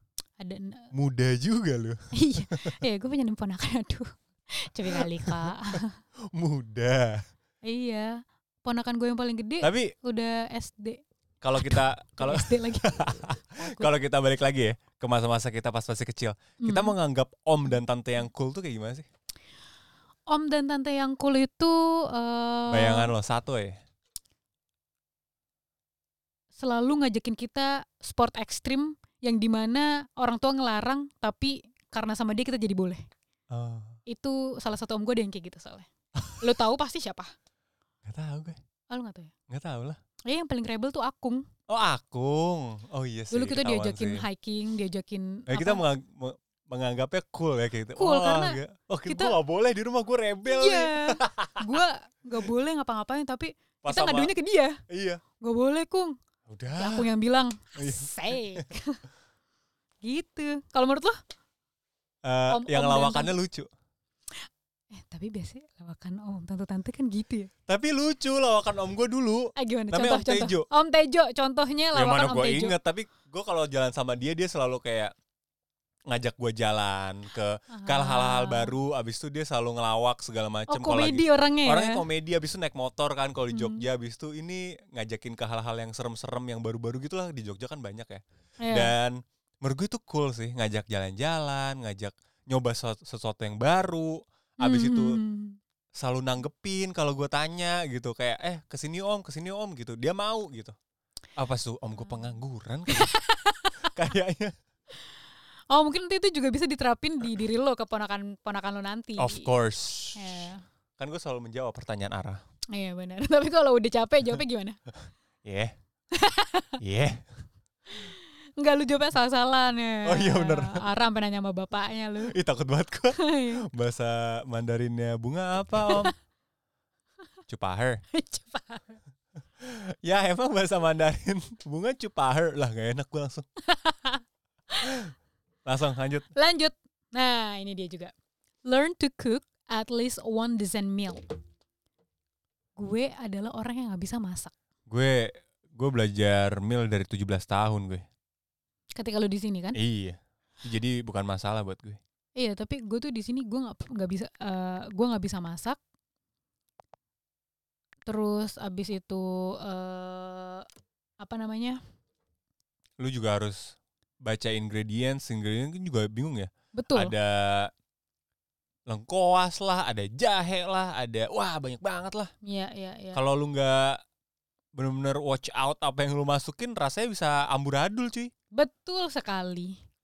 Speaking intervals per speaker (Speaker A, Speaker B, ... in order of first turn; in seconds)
Speaker A: 0.4-0.9, 2.1-6.0, 7.6-11.0, 11.6-13.9, 16.6-16.9, 20.3-23.1, 26.6-33.0, 34.1-37.3, 38.9-39.3, 40.3-41.5, 43.3-45.8, 48.0-49.4, 50.5-54.8, 55.4-56.2, 56.8-59.0, 60.0-61.2, 62.5-63.4, 64.9-67.5, 69.6-72.8, 77.7-78.8, 80.7-82.0, 83.5-83.8, 88.6-88.9, 94.6-95.6, 102.9-103.9, 105.7-109.5, 110.2-110.6, 112.7-114.8, 116.1-116.8, 117.9-122.4, 123.2-123.7, 128.1-129.0, 133.6-135.0, 136.3-138.1, 138.7-141.2, 142.8-144.5, 149.0-149.8, 152.4-155.8, 158.1-160.7, 161.2-161.8, 166.8-167.1, 172.4-173.2, 178.5-179.8
Speaker B: 0.9-2.8, 4.9-5.5, 6.3-7.2, 9.6-9.9, 11.4-19.1, 22.7-23.8, 33.5-34.0, 36.2-36.5, 38.0-38.6, 39.5-40.0, 41.7-44.2, 45.5-51.8, 53.8-54.3, 54.9-55.2, 56.5-57.1, 57.8-58.6, 62.2-63.7, 67.7-70.7, 71.9-75.1, 76.1-95.2, 96.0-100.8, 101.4-103.1, 103.8-104.5, 109.2-112.4, 115.4-115.7, 116.8-117.3, 120.1-120.8, 122.3-126.1, 127.5-128.0, 129.6-133.5, 135.7-136.3, 144.9-148.1, 149.8-152.0, 163.0-167.7, 168.9-172.3, 173.1-174.0, 174.8-178.3